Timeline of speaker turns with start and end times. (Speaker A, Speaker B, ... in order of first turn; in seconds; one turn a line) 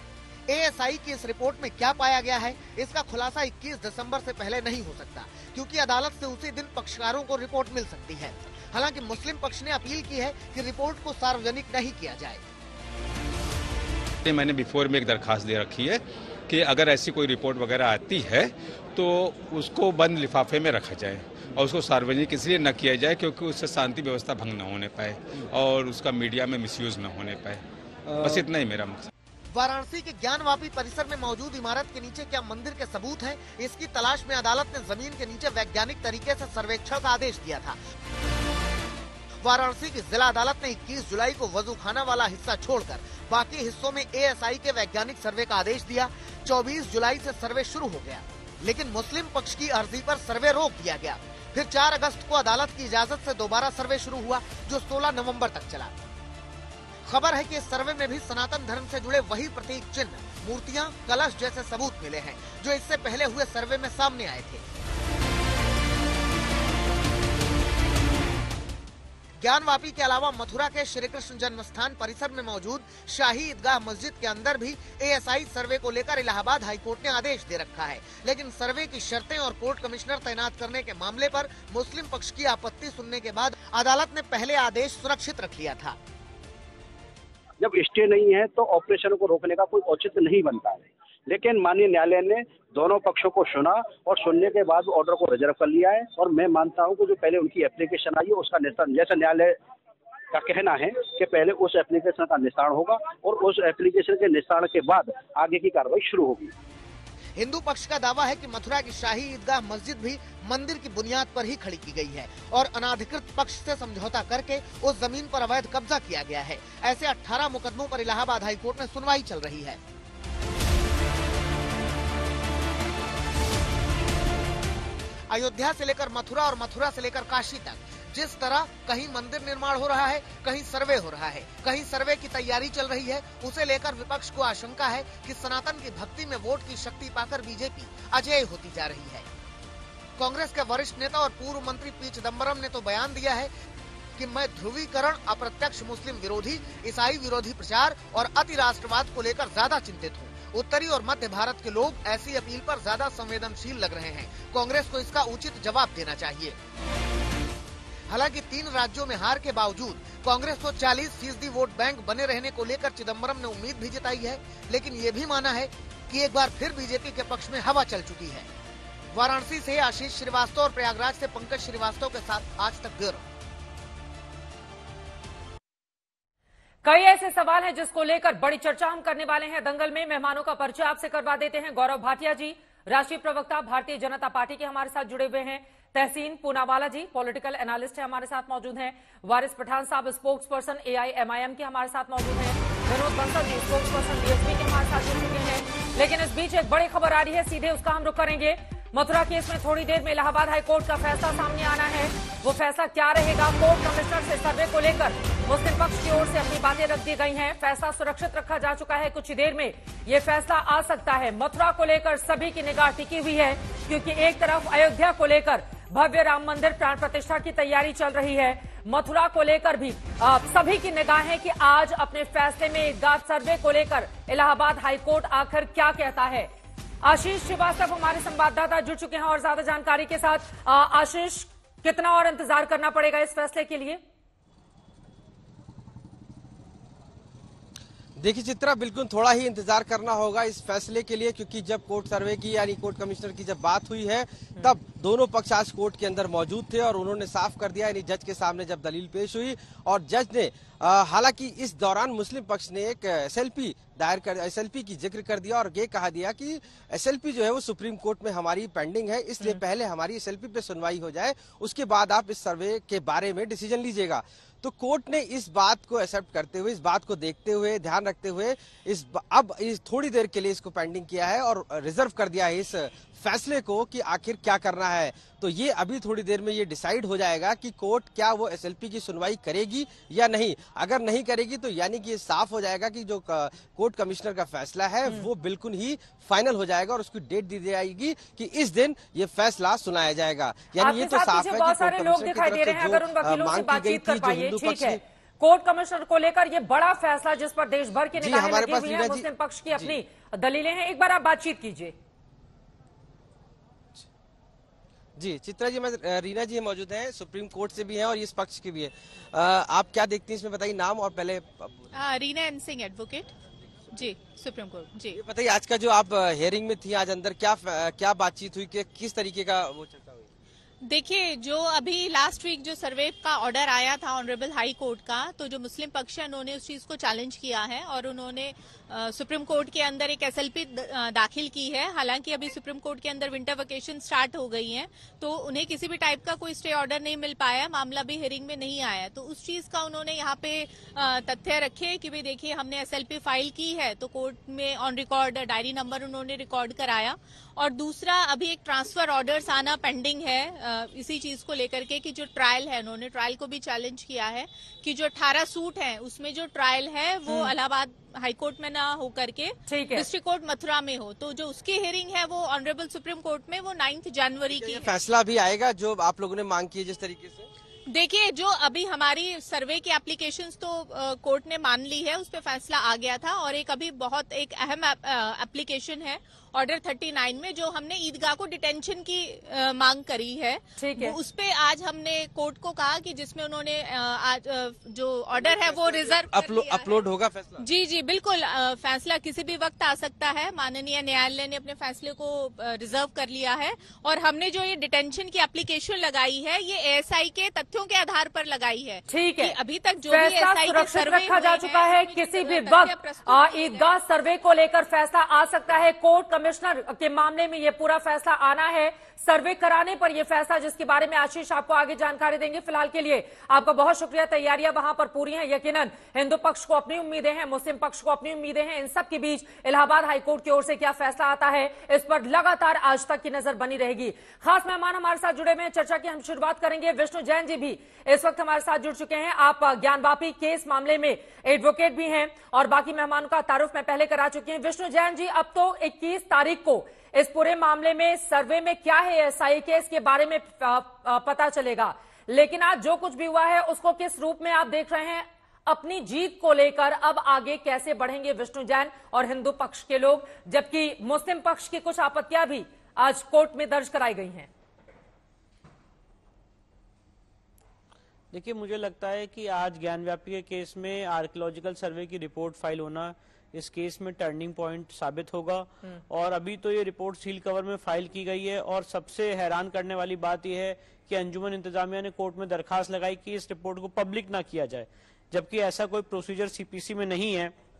Speaker A: 0.5-12.4
Speaker B: 14.2-29.1
Speaker A: 29.5-37.8
Speaker A: 39.4-56.0
Speaker A: 57.0-64.7
Speaker A: 69.4-86.0
Speaker C: 87.6-99.6
Speaker C: 100.3-106.5
Speaker A: 107.3-119.8
Speaker A: 125.3-139.3
Speaker A: 140.2-143.5
Speaker A: 144.2-156.6
Speaker A: 158.1-168.5
Speaker A: 169.1-173.2
Speaker D: 176.8-226.5
Speaker D: 227.0-234.0
Speaker E: 238.2-295.0
Speaker D: 290.8-301.9
Speaker E: 298.2-300.0
Speaker E: 305.2-311.9
Speaker F: 311.9-313.3
Speaker F: 313.9-315.2
Speaker E: 315.1-320.3
Speaker F: 320.8-364.9
Speaker D: 359.7-360.1
Speaker E: 364.4-367.5
Speaker F: 367.9-403.9
Speaker D: 380.8-381.1
Speaker E: 385.3-387.6
Speaker D: 399.1-399.6
Speaker D: 400.1-454.5
Speaker G: 458.3-477.5